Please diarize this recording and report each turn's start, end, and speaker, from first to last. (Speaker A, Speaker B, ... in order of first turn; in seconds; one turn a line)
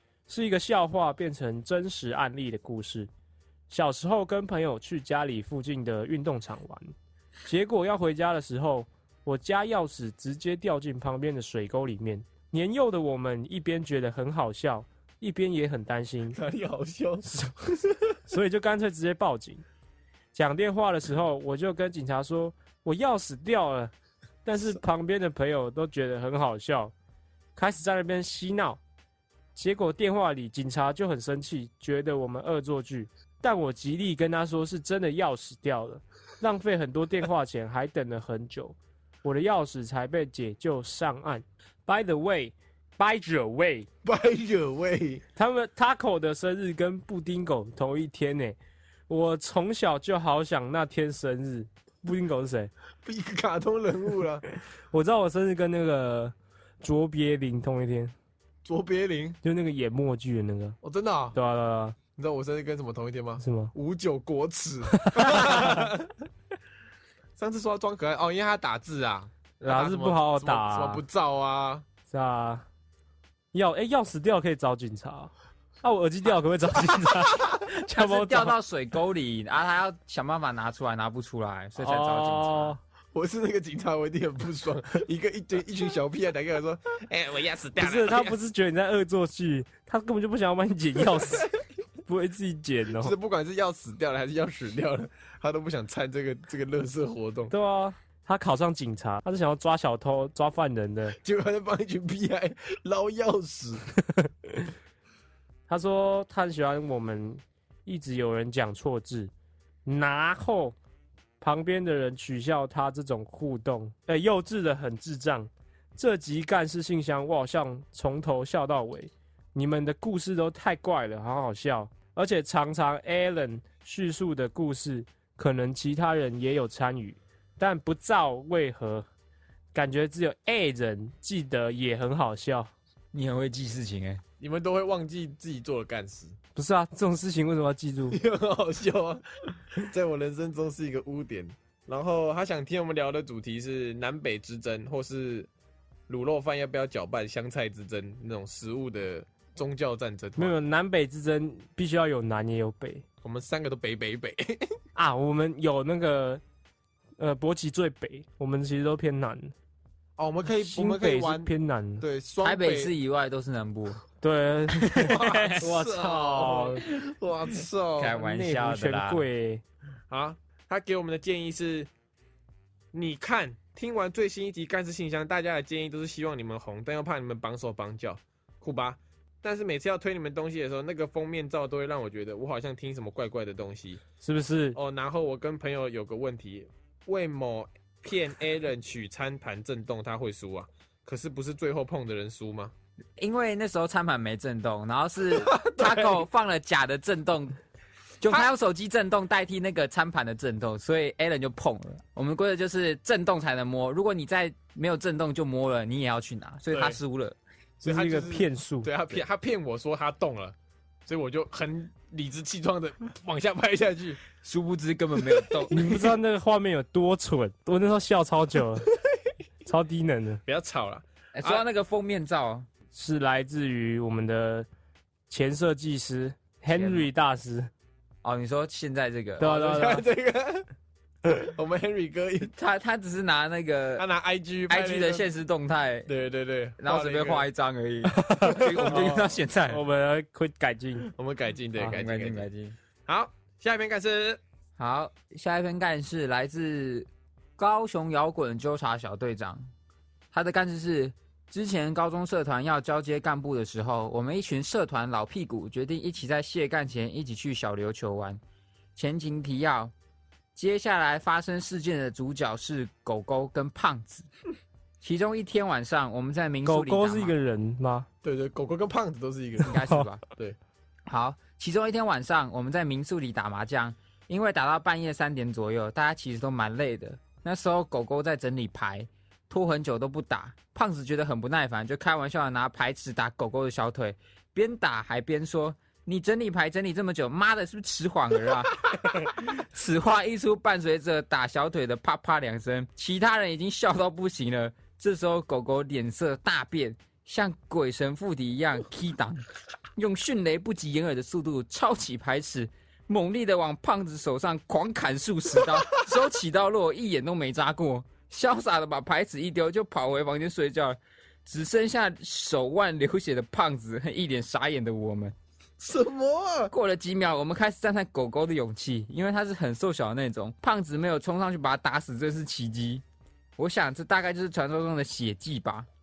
Speaker A: 0.3-3.1
Speaker A: 3.7-6.9
Speaker A: 7.4-16.4
Speaker B: 16.3-17.2
Speaker A: 17.2-17.7
Speaker A: 18.3-19.6
Speaker A: 20.3-23.9
Speaker A: 24.4-26.9
Speaker A: 27.6-28.8
Speaker A: 29.5-43.9
Speaker B: 44.0-45.2
Speaker A: 45.4-48.6
Speaker A: 49.1-52.7
Speaker B: 53.0-54.4
Speaker A: 54.9-58.1
Speaker B: 58.6-59.4
Speaker A: 59.4-60.8
Speaker B: 60.8-61.4
Speaker A: 61.3-62.0
Speaker B: 62.1-66.1
Speaker A: 63.4-63.7
Speaker A: 64.9-65.9
Speaker B: 67.4-71.8
Speaker A: 69.6-71.0
Speaker A: 72.1-72.6
Speaker A: 73.5-78.5
Speaker C: 77.9-82.8
Speaker A: 81.8-82.8
Speaker B: 83.1-88.3
Speaker A: 87.8-91.5
Speaker A: 92.0-93.1
Speaker B: 93.0-97.5
Speaker A: 97.5-101.2
Speaker B: 101.2-103.8
Speaker A: 104.1-104.7
Speaker A: 105.7-109.3
Speaker A: 109.8-110.7
Speaker A: 111.4-129.0
Speaker A: 129.7-132.7
Speaker C: 133.1-134.2
Speaker B: 134.4-136.3
Speaker A: 136.5-138.2
Speaker B: 138.1-145.5
Speaker B: 146.1-150.5
Speaker A: 150.4-153.0
Speaker B: 153.2-154.7
Speaker A: 154.9-156.4
Speaker A: 157.2-159.5
Speaker B: 160.2-161.5
Speaker A: 160.6-162.0
Speaker B: 162.0-162.9
Speaker C: 162.4-164.0
Speaker A: 164.2-166.8
Speaker C: 164.8-166.5
Speaker B: 164.9-168.2
Speaker C: 168.0-169.2
Speaker A: 168.1-169.6
Speaker B: 170.1-171.9
Speaker B: 172.9-184.0
Speaker A: 184.2-184.8
Speaker B: 184.7-192.7
Speaker C: 193.2-197.6
Speaker B: 195.4-196.2
Speaker C: 198.2-207.3
Speaker B: 206.7-207.0
Speaker B: 207.8-210.5
Speaker A: 207.8-208.9
Speaker B: 211.1-214.2
Speaker C: 214.4-216.1
Speaker B: 215.3-215.6
Speaker A: 215.7-218.9
Speaker A: 219.6-220.4
Speaker B: 220.4-221.6
Speaker C: 221.3-222.7
Speaker A: 222.9-224.7
Speaker A: 225.3-227.7
Speaker C: 226.7-227.1
Speaker C: 228.2-229.6
Speaker A: 229.4-230.0
Speaker B: 229.4-230.7
Speaker B: 231.2-232.5
Speaker C: 232.6-234.1
Speaker B: 234.0-235.3
Speaker C: 234.7-236.1
Speaker B: 236.1-237.5
Speaker C: 236.8-239.8
Speaker A: 238.1-241.1
Speaker B: 238.6-239.3
Speaker B: 241.1-242.4
Speaker C: 241.8-242.8
Speaker B: 243.1-244.4
Speaker C: 244.8-249.7
Speaker C: 250.3-258.4
Speaker C: 258.9-259.9
Speaker C: 260.5-264.3
Speaker C: 265.0-267.3
Speaker A: 266.6-268.1
Speaker B: 268.2-270.6
Speaker C: 269.6-270.2
Speaker A: 269.7-270.1
Speaker C: 271.1-299.4
Speaker C: 299.9-315.3
Speaker B: 315.8-316.7
Speaker C: 316.7-323.0
Speaker C: 323.6-325.9